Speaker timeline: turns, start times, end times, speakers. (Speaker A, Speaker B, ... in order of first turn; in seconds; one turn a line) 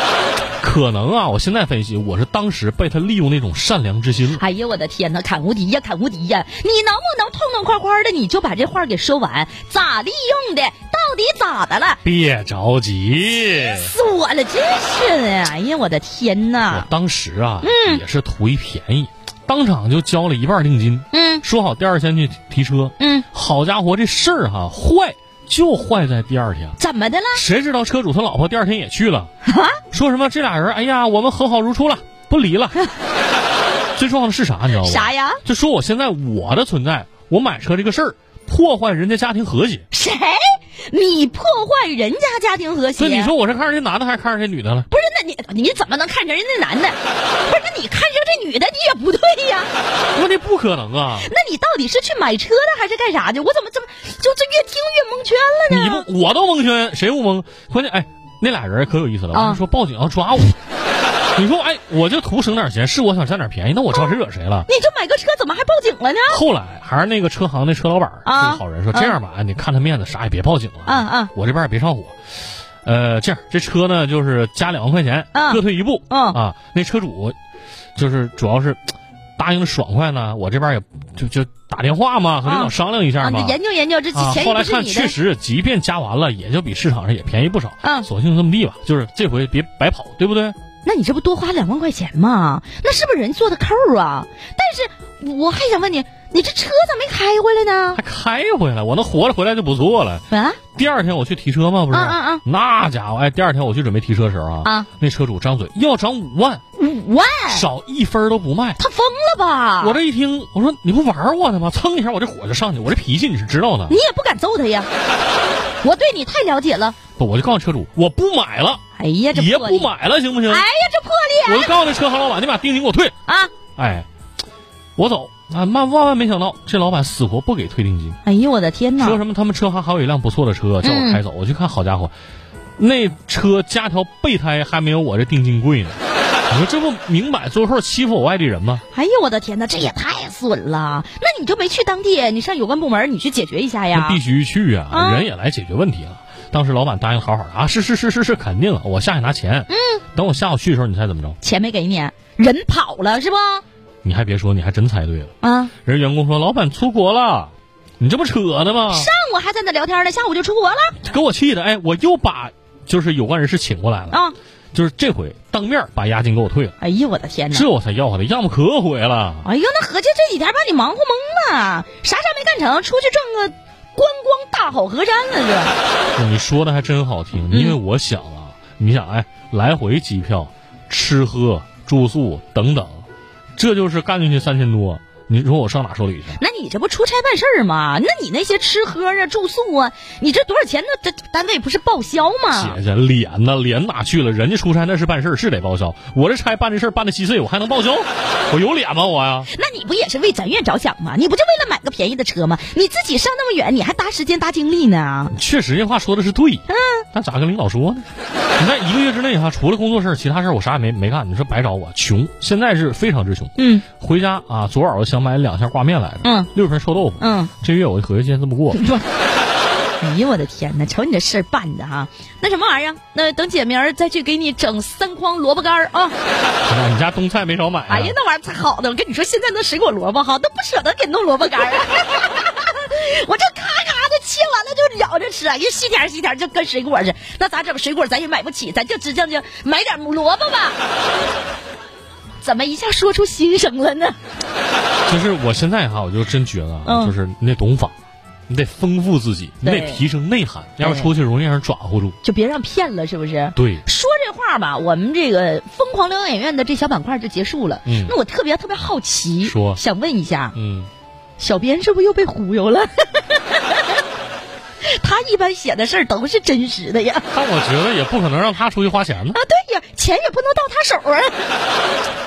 Speaker A: 0.6-4.4
Speaker B: 4.3-12.0
Speaker A: 12.0-13.9
Speaker B: 13.5-16.9
Speaker A: 16.7-26.8
Speaker B: 17.6-18.0
Speaker B: 21.1-21.4
Speaker B: 23.0-23.2
Speaker B: 26.8-27.4
Speaker A: 27.3-29.3
Speaker B: 29.4-29.8
Speaker A: 29.9-32.8
Speaker A: 33.9-39.8
Speaker B: 34.7-35.4
Speaker B: 39.9-43.3
Speaker A: 43.0-44.9
Speaker B: 44.9-49.7
Speaker A: 50.1-51.3
Speaker B: 51.1-56.0
Speaker A: 55.7-60.6
Speaker B: 59.3-59.6
Speaker A: 61.4-64.7
Speaker B: 64.7-66.4
Speaker A: 66.3-72.1
Speaker B: 68.2-69.2
Speaker B: 70.8-71.3
Speaker A: 72.8-77.3
Speaker B: 75.3-76.4
Speaker A: 78.0-83.6
Speaker B: 82.4-85.2
Speaker A: 84.1-90.5
Speaker B: 87.8-88.1
Speaker B: 90.8-98.0
Speaker A: 97.9-100.2
Speaker B: 100.3-100.6
Speaker A: 100.7-106.6
Speaker B: 101.9-102.4
Speaker B: 106.8-107.7
Speaker A: 107.5-108.8
Speaker B: 108.8-110.0
Speaker A: 109.8-114.0
Speaker B: 113.9-114.9
Speaker B: 115.8-117.0
Speaker A: 117.2-118.8
Speaker B: 119.0-119.9
Speaker A: 119.3-120.7
Speaker B: 120.5-121.7
Speaker A: 121.4-123.1
Speaker B: 123.3-123.5
Speaker A: 123.8-124.1
Speaker A: 125.0-128.2
Speaker B: 128.2-129.2
Speaker A: 129.0-132.1
Speaker B: 130.8-131.2
Speaker A: 132.8-138.8
Speaker B: 138.9-144.2
Speaker A: 143.9-151.4
Speaker B: 144.9-145.3
Speaker B: 149.7-150.0
Speaker B: 151.4-153.6
Speaker A: 154.0-155.3
Speaker B: 155.4-155.7
Speaker A: 155.8-159.1
Speaker B: 158.9-161.0
Speaker A: 161.0-164.2
Speaker B: 164.1-164.3
Speaker A: 164.7-166.7
Speaker B: 166.8-167.7
Speaker A: 167.5-169.5
Speaker B: 169.4-175.8
Speaker A: 176.2-183.0
Speaker B: 177.5-177.8
Speaker A: 183.6-186.4
Speaker B: 186.3-192.8
Speaker A: 192.5-199.5
Speaker B: 199.5-205.3
Speaker A: 205.3-208.1
Speaker B: 206.7-207.0
Speaker A: 208.6-218.8
Speaker B: 213.6-213.8
Speaker B: 216.2-216.5
Speaker B: 217.2-217.5
Speaker B: 218.7-219.1
Speaker B: 220.0-226.2
Speaker A: 226.6-228.2
Speaker B: 227.9-240.8
Speaker B: 242.4-244.2
Speaker A: 245.1-247.9
Speaker B: 246.8-247.1
Speaker A: 248.5-252.2
Speaker B: 249.6-250.0
Speaker B: 250.8-251.1
Speaker B: 252.2-260.6
Speaker A: 253.5-253.8
Speaker A: 257.9-258.1
Speaker A: 259.4-259.8
Speaker A: 260.5-260.9
Speaker B: 261.4-264.0
Speaker B: 264.8-267.3
Speaker A: 267.3-269.4
Speaker B: 269.3-271.5